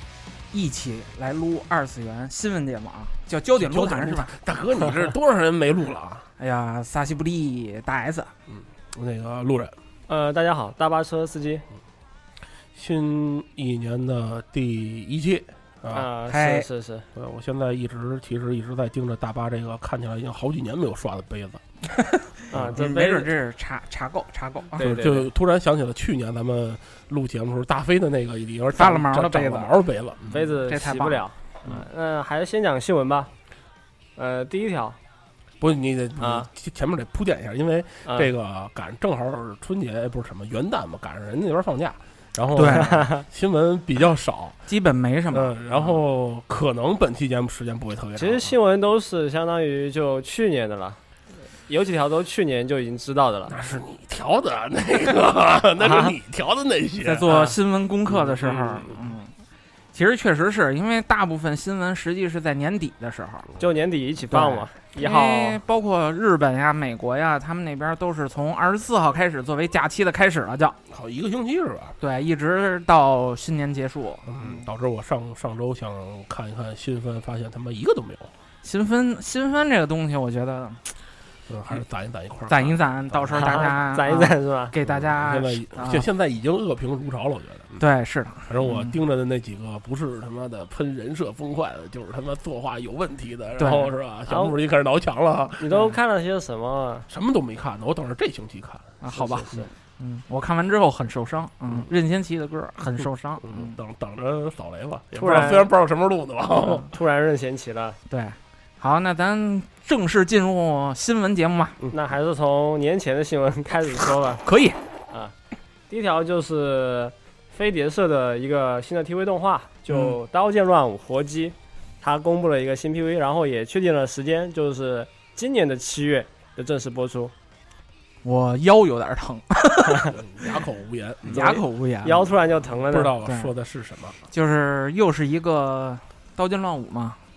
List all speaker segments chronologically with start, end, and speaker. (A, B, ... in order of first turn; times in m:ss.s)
0:00.5-0:04.3 A
0:03.5-0:06.2 B
0:06.4-0:08.3 A
0:08.5-0:09.8 B
0:10.1-0:11.6 C
0:12.7-0:16.1 B
0:15.9-0:17.0 C
0:16.3-0:16.7 A
0:17.1-0:21.6 B
0:21.9-0:24.8 A
0:22.5-0:23.3 C
0:22.5-0:22.8 B
0:24.8-0:25.3 C
0:24.8-0:30.4 B
0:28.7-0:31.2 A
0:30.3-0:33.3 C
0:34.2-0:35.0 C
0:35.6-0:44.6 B
0:36.2-0:36.5 C
0:38.0-0:38.3 C
0:42.5-0:43.1 A
0:42.9-0:43.2 C
0:44.7-0:46.0 A
0:45.3-0:48.6 B
0:48.2-0:51.0 C
0:51.7-0:53.5 C
0:53.5-0:57.3 B
0:55.8-0:56.1 C
0:57.0-0:59.3 A
0:57.2-0:57.6 C
0:58.0-0:59.1 B
0:59.9-1:03.5 A
1:03.6-1:05.6 C
1:04.3-1:10.8 A
1:10.9-1:12.0 B
1:12.0-1:14.4 A
1:14.2-1:18.3 B
1:18.6-1:20.9 A
1:21.5-1:23.7 B
1:22.5-1:26.1 A
1:23.4-1:24.7 C
1:24.8-1:27.8 B
1:27.8-1:29.0 A
1:28.5-1:35.7 B
1:33.6-1:33.9 A
1:34.3-1:34.6 C
1:35.6-1:37.0 C
1:35.7-1:36.0 A
1:37.1-1:39.0 B
1:39.0-1:43.8 A
1:39.1-1:39.7 C
1:43.0-1:46.9 B
1:45.1-1:45.7 C
1:45.2-1:45.6 A
1:46.8-1:48.0 C
1:48.1-1:51.8 A
1:51.9-1:54.4 C
1:54.4-1:54.8 A
1:55.9-2:07.3 C
1:59.9-2:00.2 A
2:08.2-2:10.2 A
2:10.0-2:11.6 B
2:11.3-2:12.3 A
2:11.3-2:13.1 C
2:12.8-2:14.2 B
2:13.1-2:13.5 A
2:14.3-2:17.2 A